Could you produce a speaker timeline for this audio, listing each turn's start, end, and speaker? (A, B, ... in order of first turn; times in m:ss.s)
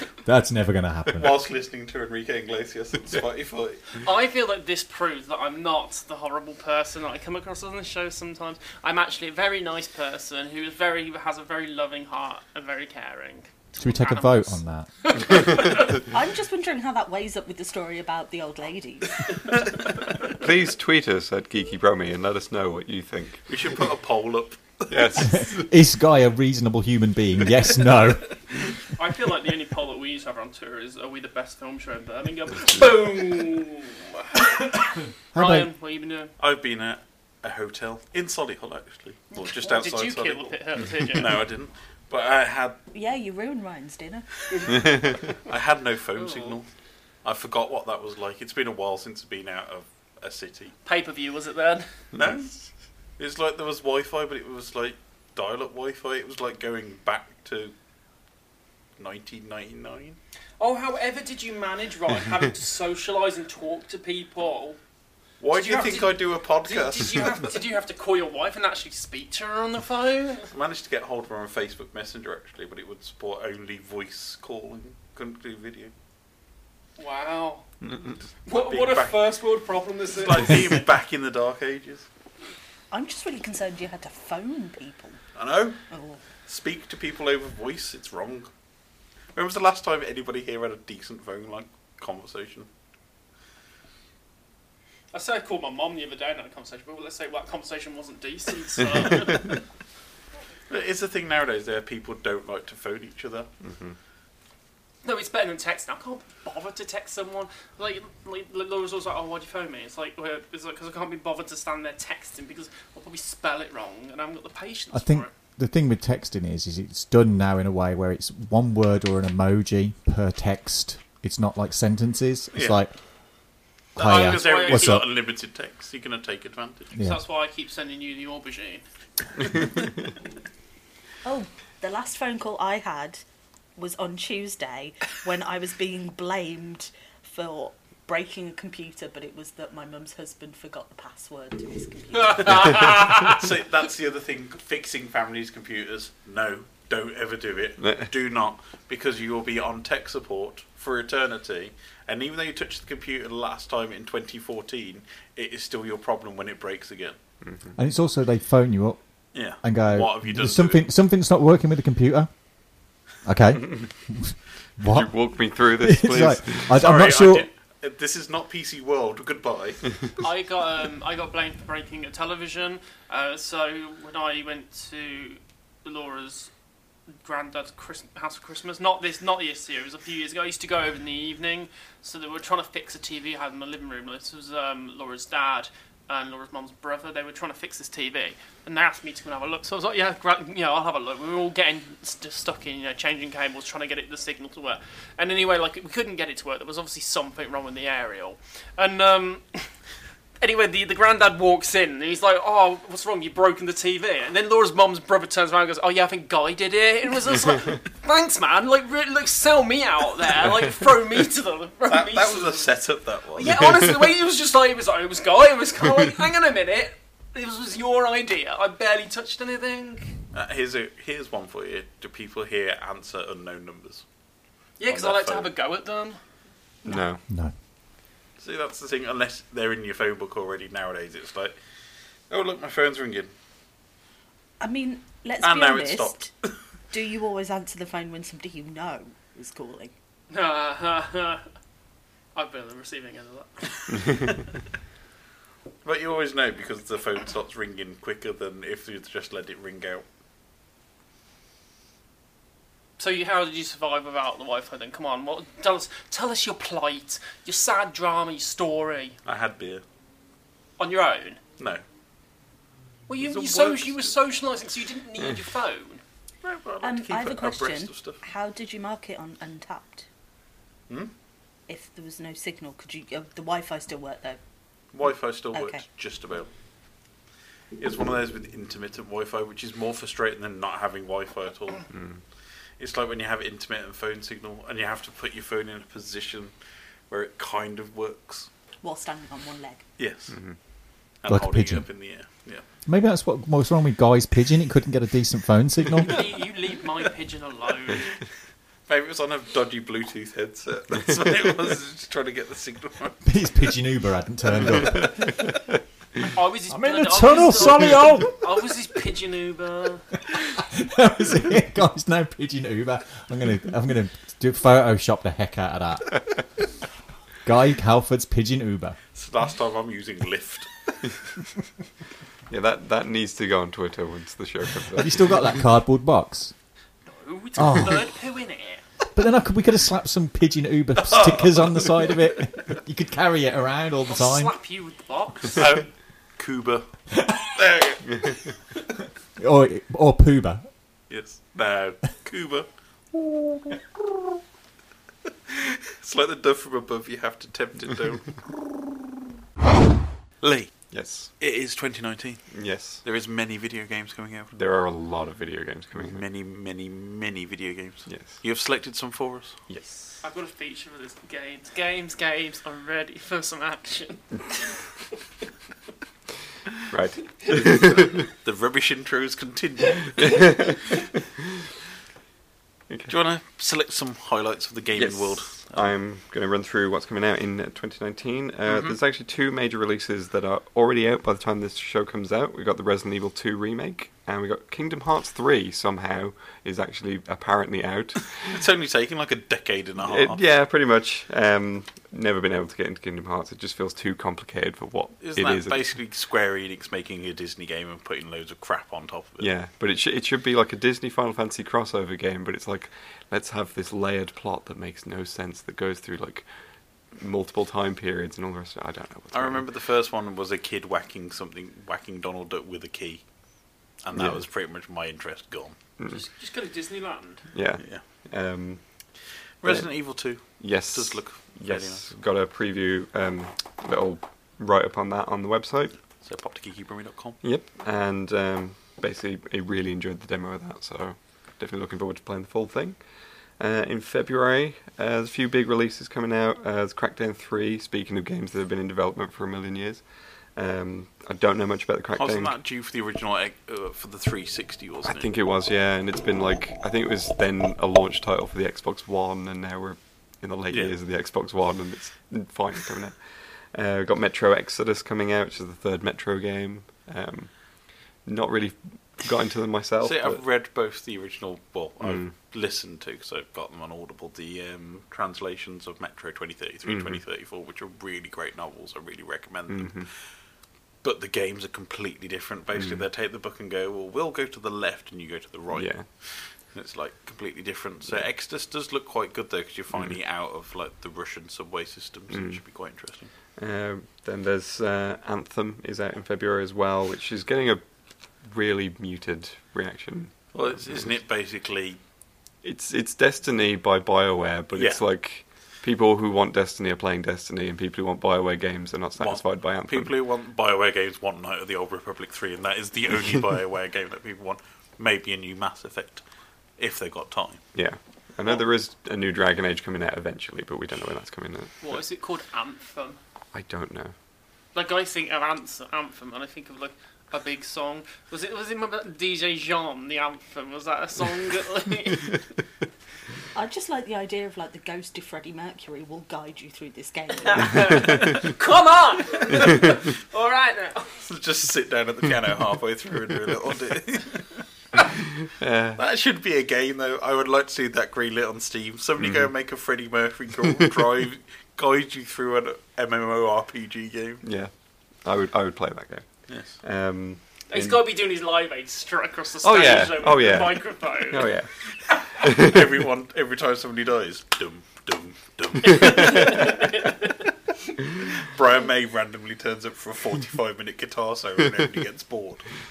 0:00.2-0:01.4 A
0:01.2-0:03.8 B
0:04.0-0:15.8 C
0:13.8-0:14.9 A
0:16.1-0:19.2 D
0:20.3-0:23.8 E
0:23.5-0:25.3 B
0:24.9-0:25.7 E
0:25.3-0:28.4 A
0:28.9-0:36.3 C
0:35.3-0:35.7 A
0:36.4-0:42.8 B
0:39.3-0:41.4 C
0:42.9-0:44.3 D
0:44.9-0:45.2 E
0:45.4-0:46.7 B
0:46.2-0:46.6 C
0:47.2-0:50.7 B
0:50.8-0:51.9 C
0:52.1-0:52.5 B
0:53.2-0:57.7 B
0:59.0-1:00.2 B
1:00.6-1:04.8 C
1:05.4-1:07.5 B
1:05.5-1:10.5 C
1:10.5-1:15.9 B
1:17.0-1:17.6 C
1:17.8-1:19.3 B
1:18.4-1:20.7 C
1:20.2-1:22.1 B
1:22.9-1:25.2 D
1:25.3-1:25.8 B
1:25.9-1:26.2 D
1:26.4-1:28.5 B
1:29.3-1:32.7 B
1:35.1-1:39.6 C
1:40.7-1:43.5 B
1:43.6-1:44.0 E
1:45.0-1:55.3 C
1:54.9-2:02.9 A
2:02.5-2:02.8 B
2:04.0-2:05.1 A
2:04.0-2:06.9 B
2:04.0-2:05.0 C
2:06.9-2:07.2 A
2:07.0-2:08.8 C
2:11.2-2:13.2 D
2:13.8-2:22.8 D
2:22.2-2:23.4 C
2:22.8-2:37.2 B
2:27.8-2:28.1 E
2:37.4-2:37.7 E
2:37.8-2:42.3 A
2:39.3-2:40.8 B
2:43.2-2:47.5 A
2:44.9-2:46.8 E
2:46.7-2:49.8 B
2:50.2-2:56.5 C
2:57.2-3:19.7 C
3:20.4-3:32.7 C
3:31.9-3:33.7 B
3:33.3-3:40.1 C
3:40.3-3:44.0 B
3:44.8-3:46.2 C
3:44.9-3:45.5 B
3:46.8-3:47.2 E
3:47.3-3:47.5 A
3:48.4-3:51.6 B
3:52.3-3:53.3 B
3:54.6-3:56.3 D
3:55.4-3:56.5 B
3:56.9-3:59.9 D
4:00.3-4:01.4 C
4:02.3-4:04.0 C
4:05.8-4:10.0 B
4:13.0-4:19.2 C
4:19.2-4:19.8 B
4:20.8-4:21.4 C
4:23.1-4:26.0 C
4:23.2-4:24.1 B
4:26.4-4:28.2 B
4:26.8-4:30.1 D
4:31.7-4:34.4 D
4:34.9-4:36.5 B
4:35.5-4:35.8 D
4:37.8-4:41.9 B
4:41.9-4:42.2 E
4:42.8-4:46.5 B
4:47.1-4:48.5 B
4:48.8-4:49.8 D
4:50.0-4:50.4 B
4:50.3-4:50.6 E
4:51.2-4:52.6 B
4:51.3-4:51.9 A
4:52.8-4:56.2 A
4:56.1-4:58.1 C
4:58.9-5:03.2 B
5:03.2-5:05.5 A
5:06.3-5:10.1 C
5:06.7-5:08.6 A
5:10.4-5:16.4 A
5:17.4-5:19.0 A
5:19.1-5:20.7 B
5:22.5-5:25.3 E
5:24.9-5:26.5 A
5:27.1-5:28.8 C
5:27.6-5:28.0 A
5:29.1-5:34.5 A
5:31.0-5:31.6 B
5:34.1-5:35.6 C
5:35.6-5:36.9 B
5:37.6-5:38.0 B
5:39.4-5:40.7 A
5:41.1-5:42.7 B
5:45.5-5:48.4 B
5:50.4-5:50.7 B
5:50.9-5:51.3 E
5:51.4-5:52.4 B
5:52.5-5:53.0 E
5:53.0-5:54.5 B
5:54.5-5:56.2 E
5:56.0-5:59.6 B
5:58.1-5:58.4 E
5:59.7-6:00.2 E
6:00.2-6:04.4 C
6:06.9-6:08.3 E
6:08.4-6:10.4 B
6:10.2-6:10.7 E
6:13.1-6:15.9 B
6:14.9-6:28.5 E
6:18.6-6:19.0 B
6:28.5-6:30.4 B
6:30.0-6:35.9 E
6:35.2-6:39.5 B
6:39.4-6:46.5 E
6:47.1-6:49.6 E
6:49.3-6:53.2 B
6:54.0-6:55.8 B
6:54.1-6:54.4 E
6:56.1-6:57.4 C
6:57.5-6:58.8 E
6:57.8-6:58.1 B
6:59.6-7:02.1 B
6:59.6-7:06.1 E
7:06.1-7:07.4 B
7:07.4-7:22.6 E
7:22.1-7:25.3 B
7:25.0-7:40.4 E
7:30.7-7:30.9 B
7:40.0-7:50.3 B
7:42.0-7:42.4 E
7:46.8-7:47.2 E
7:49.7-7:50.1 E
7:51.0-8:03.3 B
7:52.8-7:53.0 E
7:55.7-7:56.1 E
8:02.3-8:02.6 E
8:03.5-8:11.2 E
8:10.5-8:12.0 B
8:12.6-8:20.2 E
8:14.7-8:15.0 B
8:19.2-8:26.2 B
8:26.8-8:27.6 B
8:27.7-8:32.0 E
8:31.8-8:33.2 C
8:33.5-8:34.1 E
8:34.7-8:42.4 C
8:43.5-8:48.0 D
8:47.4-8:51.2 C
8:51.2-8:54.5 B
8:55.4-8:56.0 E
8:56.0-9:04.4 B
8:59.2-8:59.5 E
9:04.4-9:08.0 E
9:06.5-9:06.8 B
9:07.7-9:11.5 C
9:09.6-9:11.7 E
9:12.3-9:13.0 E
9:12.6-9:16.8 B
9:15.9-9:17.1 C
9:18.4-9:22.6 B